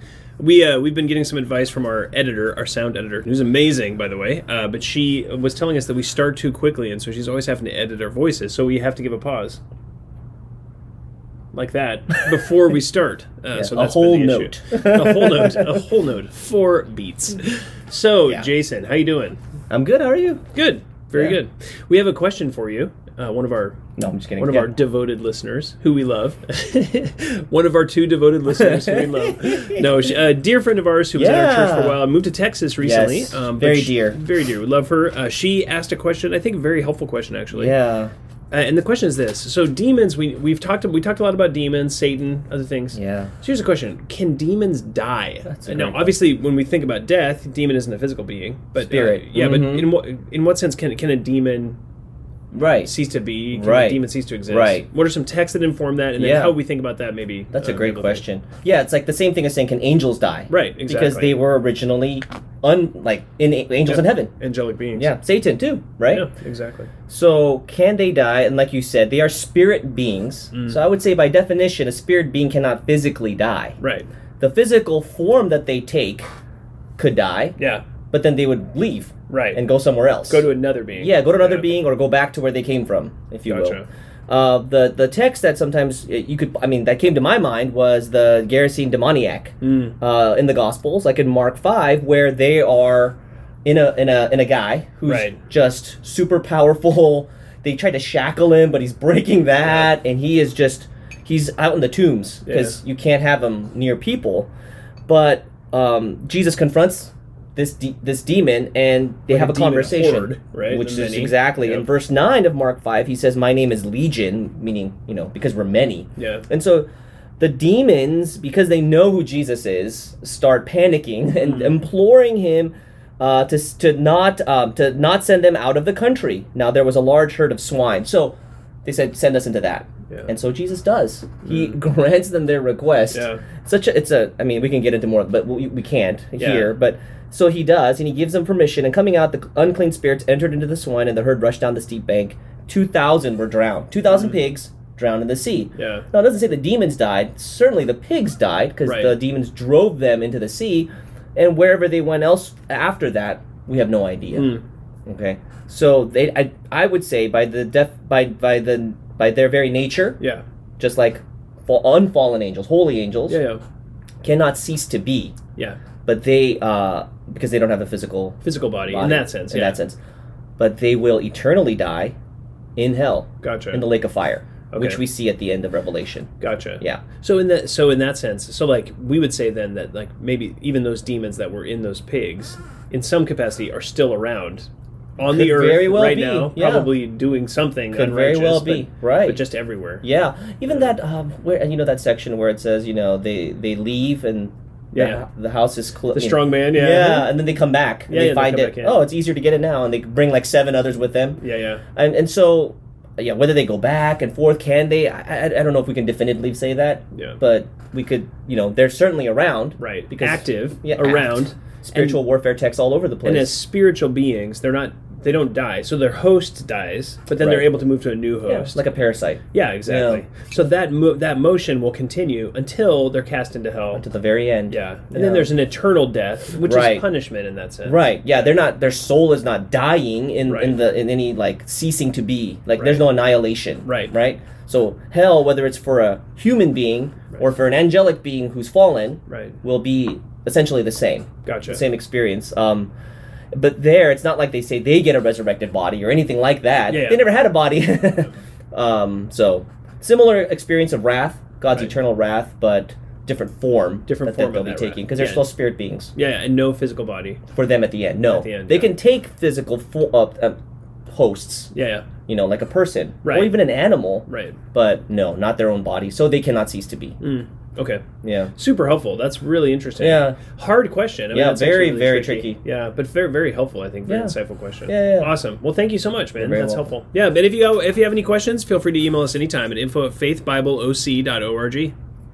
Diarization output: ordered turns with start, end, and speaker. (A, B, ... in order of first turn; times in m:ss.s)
0:00.4-0:09.6 A
0:11.5-0:19.4 A
0:13.5-0:15.8 B
0:19.7-0:20.4 B
0:20.5-0:23.8 A
0:24.0-0:24.8 B
0:24.4-0:37.8 A
0:28.5-0:30.1 B
0:31.1-0:32.0 B
0:32.8-0:34.2 B
0:37.5-0:38.1 B
0:38.5-0:51.8 A
0:42.9-0:43.3 B
0:45.4-0:46.1 B
0:48.8-0:49.9 B
0:52.5-0:52.9 B
0:52.8-0:58.2 A
0:53.5-0:54.8 B
0:56.2-0:56.6 B
0:57.5-1:04.3 B
1:00.5-1:01.4 A
1:03.9-1:05.2 A
1:05.0-1:06.3 B
1:06.1-1:06.9 A
1:07.1-1:13.8 B
1:10.5-1:10.8 A
1:13.8-1:14.1 A
1:14.4-1:16.3 B
1:17.0-1:17.6 B
1:17.6-1:17.8 A
1:18.1-1:20.4 B
1:19.3-1:19.6 A
1:20.3-1:21.7 A
1:21.0-1:44.5 B
1:23.5-1:23.9 A
1:29.6-1:29.9 A
1:35.1-1:35.4 A
1:42.4-1:42.8 A
1:45.1-1:56.9 B
1:49.3-1:51.9 A
1:56.2-1:56.4 A
1:57.4-2:34.5 B
2:01.4-2:01.8 A
2:11.4-2:11.7 A
2:13.1-2:13.4 A
2:16.4-2:16.7 A
2:25.8-2:26.0 A
2:28.8-2:29.2 A
2:34.3-2:34.6 A
2:35.0-2:40.2 B
2:40.8-2:43.4 B
2:43.3-2:43.6 A
2:44.2-2:45.3 B
2:46.0-2:48.4 B
2:48.4-2:49.8 A
2:48.9-2:50.0 B
2:50.6-2:52.1 B
2:52.8-2:57.0 B
2:53.4-2:53.8 A
2:54.7-2:55.0 A
2:56.4-3:10.0 A
3:05.2-3:07.0 B
3:07.9-3:09.4 B
3:10.0-3:21.4 B
3:14.9-3:15.2 A
3:16.1-3:17.3 A
3:18.1-3:19.1 A
3:21.4-3:21.8 A
3:21.9-3:33.6 B
3:29.8-3:32.2 A
3:33.2-3:38.8 A
3:37.4-3:37.7 B
3:38.4-3:40.2 B
3:39.5-3:44.1 A
3:43.9-3:45.5 B
3:44.7-3:48.1 A
3:46.6-3:47.1 B
3:47.8-4:02.9 B
3:50.4-3:50.8 A
3:52.8-3:53.1 A
3:53.8-3:54.1 A
3:59.3-3:59.6 A
4:01.4-4:01.8 A
4:03.5-4:16.1 B
4:06.9-4:07.3 A
4:14.1-4:15.5 A
4:16.2-4:17.4 A
4:17.5-4:20.6 B
4:18.2-4:18.9 A
4:21.1-4:21.7 B
4:21.7-4:22.1 A
4:22.3-4:27.2 B
4:23.2-4:23.6 A
4:24.3-4:24.6 A
4:27.2-4:41.9 A
4:28.2-4:28.5 B
4:30.0-4:30.4 B
4:31.3-4:32.6 B
4:34.1-4:34.4 B
4:34.9-4:35.3 B
4:36.4-4:36.9 B